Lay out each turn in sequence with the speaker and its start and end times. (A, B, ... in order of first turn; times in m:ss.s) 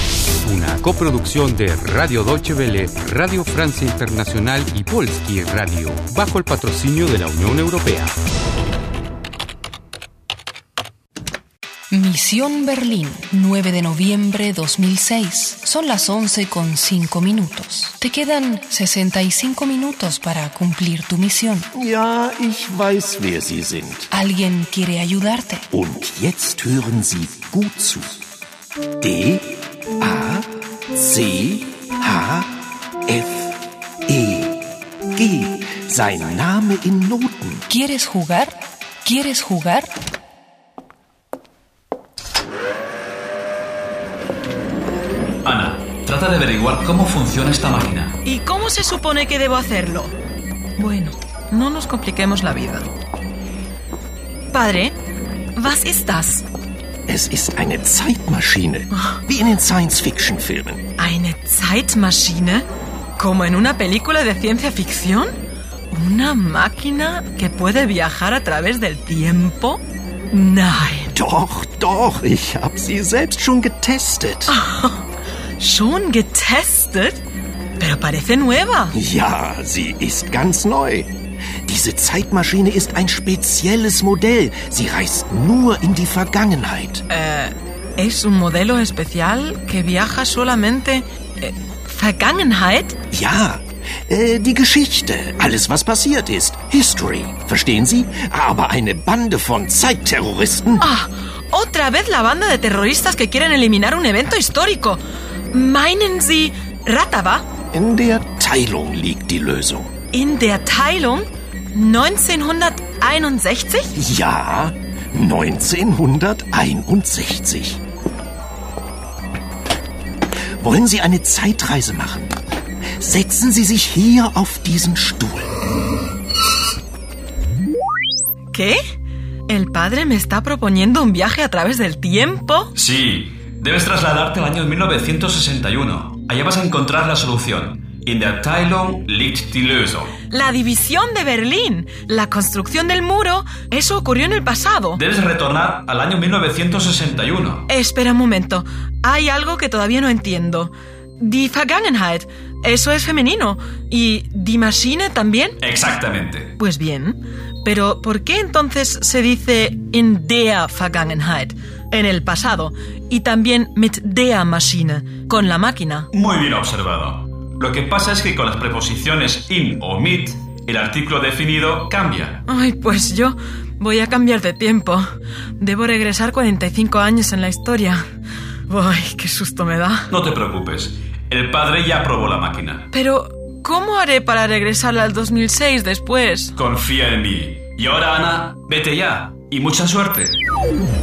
0:00.4-0:08.2 A
0:11.9-0:21.7 B
0:21.7-0:24.1 C
0:24.1-0:25.7 B
0:25.7-0:28.2 C
0:29.0-0:37.7 C
0:37.7-0:39.9 B
0:45.4-0:48.2 D
0:48.2-0:50.1 E
0:50.8-0:52.9 E
0:54.5-0:55.0 E
0:55.6-0:56.4 E
0:57.1-1:00.8 C
1:01.0-1:05.3 E
1:05.9-1:11.2 E
1:11.1-1:14.6 C
1:14.5-1:15.0 E
1:15.6-1:17.2 E
1:17.8-1:19.0 E
1:18.9-1:21.1 C
1:21.6-1:27.0 C
1:27.1-1:33.0 E
1:33.1-1:40.9 C
1:40.8-1:47.5 E
1:47.7-1:49.9 C
1:50.1-1:53.9 E
1:53.9-1:57.8 C
2:00.6-2:02.3 C
2:03.0-2:05.5 C
2:08.5-2:08.8 E
2:09.5-2:12.7 E
2:12.8-2:20.1 D
2:20.3-2:25.0 E
2:24.9-2:27.6 D
2:27.7-2:35.6 E
2:35.6-2:36.5 D
2:36.6-2:46.1 E
2:46.1-2:52.4 D
2:52.5-2:55.1 E
2:55.6-2:58.0 E
2:58.7-3:00.1 E
3:00.1-3:02.8 D
3:02.9-3:06.5 E
3:06.6-3:10.4 D